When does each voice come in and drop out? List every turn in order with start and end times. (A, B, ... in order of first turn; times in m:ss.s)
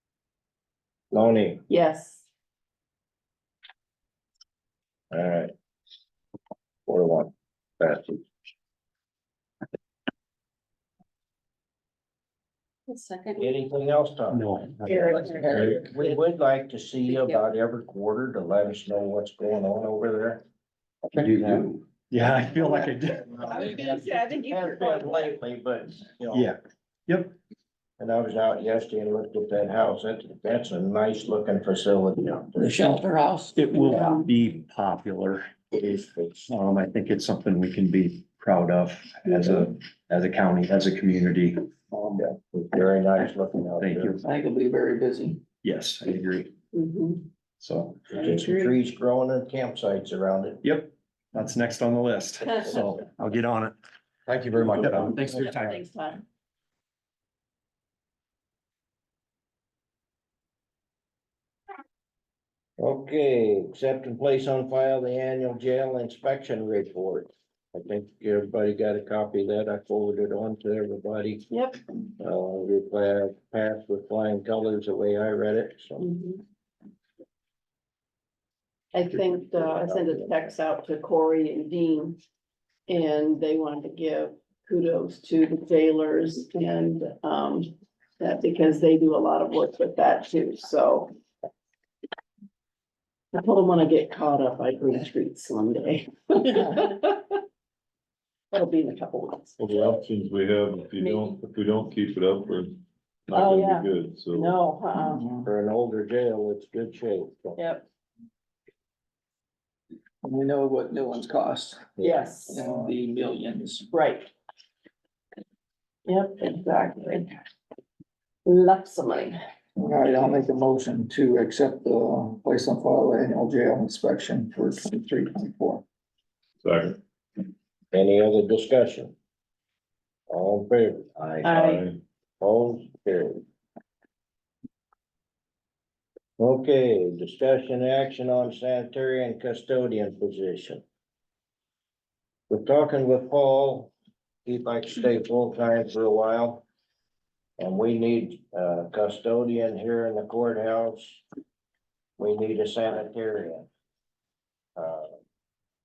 0:01.1-0:01.6 A
0:01.7-0:02.3 B
0:05.1-0:05.5 A
0:06.9-0:08.2 A
0:12.9-0:13.5 B
0:13.4-0:14.4 A
0:14.3-0:15.3 C
0:14.8-0:16.2 B
0:15.3-0:20.4 A
0:15.3-0:15.8 D
0:17.0-0:17.5 B
0:21.1-0:21.7 A
0:21.1-0:23.3 C
0:23.1-0:26.5 A
0:23.5-0:25.3 B
0:26.3-0:27.3 C
0:28.0-0:33.0 A
0:32.6-0:33.7 D
0:33.6-0:35.5 C
0:33.7-0:34.3 B
0:35.7-0:36.5 A
0:36.5-0:41.6 C
0:39.3-0:39.6 B
0:42.2-0:44.1 A
0:43.8-0:44.2 C
0:44.2-0:45.4 D
0:45.6-0:46.5 C
0:46.7-0:47.3 B
0:47.6-0:48.0 C
0:48.1-0:48.7 B
0:48.2-0:50.6 A
0:50.6-0:55.8 C
0:54.6-0:56.2 B
1:02.8-1:11.5 A
1:11.5-1:11.8 B
1:12.2-1:16.0 A
1:16.0-1:16.4 B
1:18.9-1:22.2 B
1:19.5-1:20.5 A
1:22.9-1:31.1 B
1:33.3-1:37.4 B
1:38.5-1:39.6 B
1:39.6-1:44.6 E
1:41.0-1:41.3 B
1:43.3-1:45.2 B
1:44.9-1:45.5 D
1:45.4-1:47.6 A
1:47.6-1:47.8 B
1:50.2-1:53.9 D
1:52.0-1:52.7 B
1:52.0-1:52.3 A
1:53.9-1:54.3 B
1:56.0-1:57.3 B
1:58.4-1:59.4 B
1:59.8-2:05.8 D
2:06.6-2:06.9 E
2:07.9-2:09.1 A
2:10.3-2:11.5 A
2:11.4-2:11.8 B
2:11.5-2:12.0 E
2:12.4-2:13.4 A
2:16.4-2:20.8 A
2:22.5-2:23.9 A
2:24.4-2:26.6 A
2:27.6-2:31.2 A
2:32.2-2:33.7 A
2:34.8-2:35.1 A